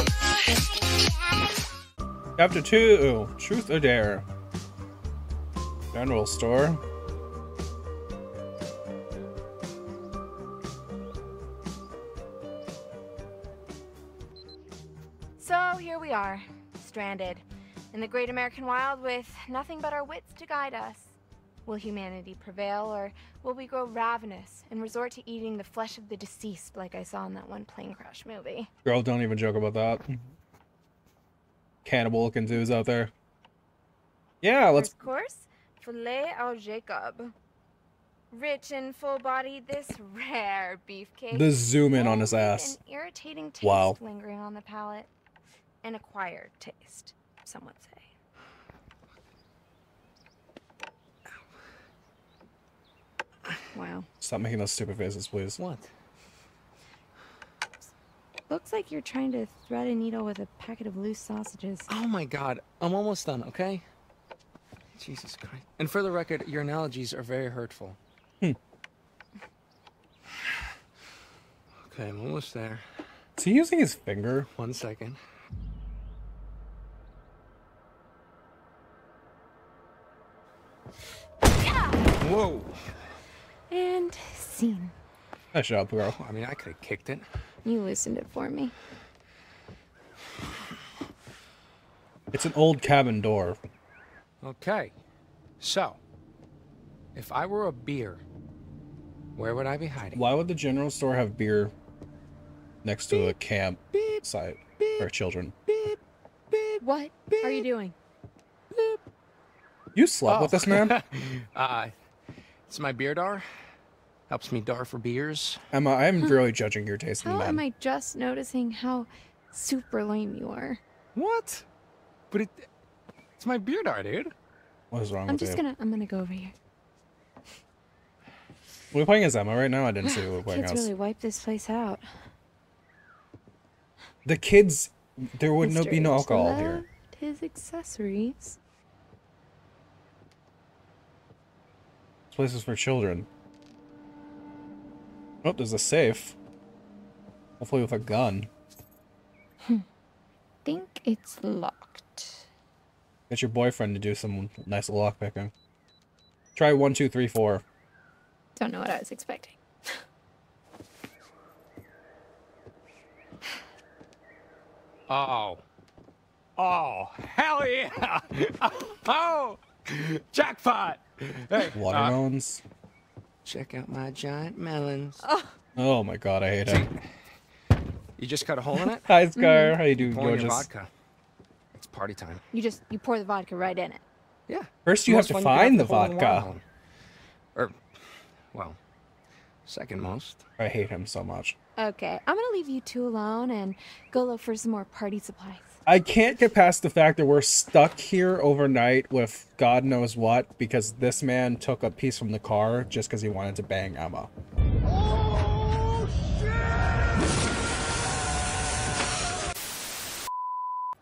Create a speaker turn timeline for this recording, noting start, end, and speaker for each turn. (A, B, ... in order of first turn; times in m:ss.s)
0:02.4-0:04.2 A
0:05.9-0:06.8 A
0:15.4-0:28.7 B
0:28.8-0:30.3 A
0:31.8-0:33.1 A
0:34.4-0:34.9 A
0:34.7-0:37.3 B
0:38.3-0:45.1 B
0:41.3-0:42.8 A
0:43.6-0:44.0 A
0:45.8-0:48.1 B
0:53.7-0:54.1 B
0:54.2-0:55.6 A
0:55.6-0:55.9 C
0:58.5-1:01.9 B
1:01.9-1:03.8 C
1:05.0-1:08.0 C
1:11.8-1:12.8 C
1:13.4-1:14.5 A
1:14.6-1:15.2 C
1:21.7-1:22.0 B
1:22.2-1:22.9 C
1:23.7-1:24.9 B
1:25.5-1:26.2 A
1:26.0-1:27.3 C
1:27.6-1:28.7 B
1:32.3-1:33.6 A
1:34.4-1:34.9 C
1:35.6-1:36.0 C
1:37.2-1:38.2 C
1:39.4-1:40.2 C
1:40.1-1:41.7 A
1:42.8-1:45.6 A
1:43.9-1:44.2 C
1:44.8-1:45.1 C
1:45.7-1:46.0 C
1:46.5-1:47.7 C
1:46.8-1:48.0 B
1:48.7-1:49.0 C
1:50.0-1:51.0 A
1:50.3-1:51.9 C
1:52.7-1:53.5 C
1:54.3-1:55.6 C
1:55.7-1:57.6 A
1:57.2-2:00.8 B
2:01.2-2:01.6 C
2:02.3-2:02.7 C
2:03.4-2:04.3 C
2:04.9-2:05.6 A
2:05.3-2:06.6 B
2:08.9-2:10.9 A
2:10.0-2:12.0 B
2:14.2-2:16.8 A
2:15.6-2:18.6 B
2:22.3-2:23.3 A
2:25.4-2:26.4 A
2:27.6-2:28.5 A
2:30.6-2:32.5 B
2:33.3-2:35.5 A
2:36.6-2:37.6 A
2:38.6-2:39.6 B
2:45.1-2:45.6 C
2:46.6-2:52.2 C
2:51.7-2:52.6 A
2:53.4-2:55.2 C
2:55.2-2:55.6 B
2:55.8-2:56.9 A
2:56.7-2:57.0 C
2:58.2-2:59.1 C
2:58.8-3:00.7 A
2:59.4-2:59.8 B
3:00.0-3:00.9 C
3:01.8-3:02.4 C
3:02.5-3:04.0 B
3:04.5-3:06.6 C
3:04.9-3:06.5 A
3:07.6-3:07.8 C
3:09.7-3:10.4 C
3:10.6-3:11.6 A
3:11.8-3:15.8 B
3:15.9-3:24.3 A